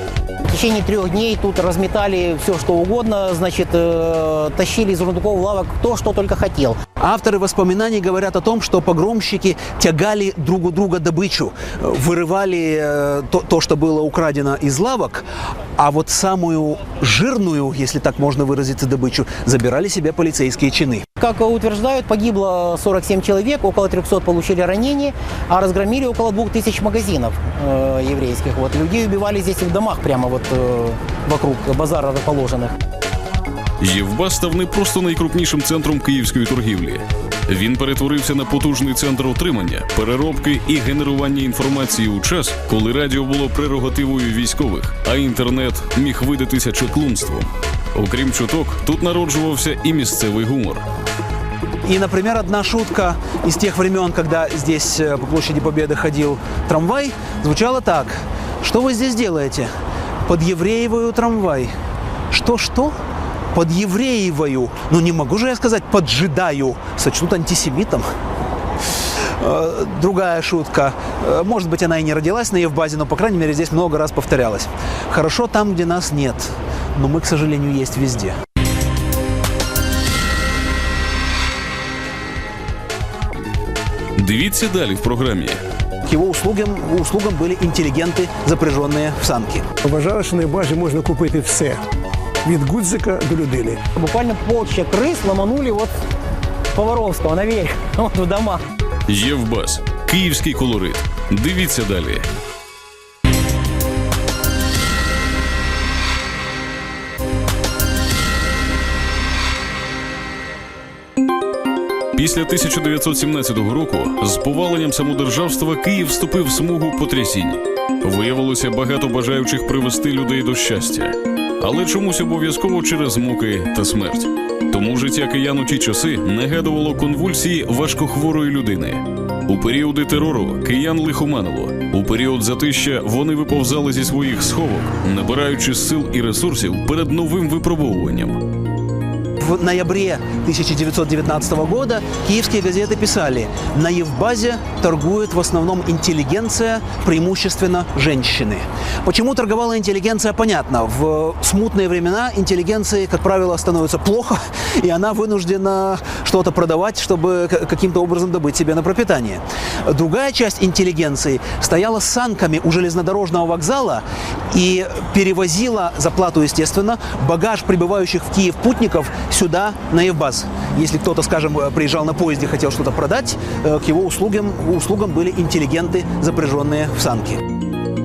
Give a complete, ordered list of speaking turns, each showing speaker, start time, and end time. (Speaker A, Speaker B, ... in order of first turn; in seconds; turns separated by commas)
Speaker A: 0.5-6.8, Speaker B: 7.0-15.2, Speaker B: 15.8-21.0, Speaker A: 21.2-32.8, Speaker C: 33.8-50.8, Speaker B: 51.8-59.7, Speaker B: 60.2-61.7, Speaker B: 62.3-62.9, Speaker B: 63.5-68.1, Speaker B: 69.4-78.3, Speaker C: 84.2-85.6, Speaker B: 86.0-89.6, Speaker D: 89.8-91.8, Speaker D: 92.4-93.8, Speaker A: 94.0-95.9, Speaker A: 96.7-98.6, Speaker C: 99.1-102.3, Speaker C: 112.1-138.4, Speaker B: 139.4-177.4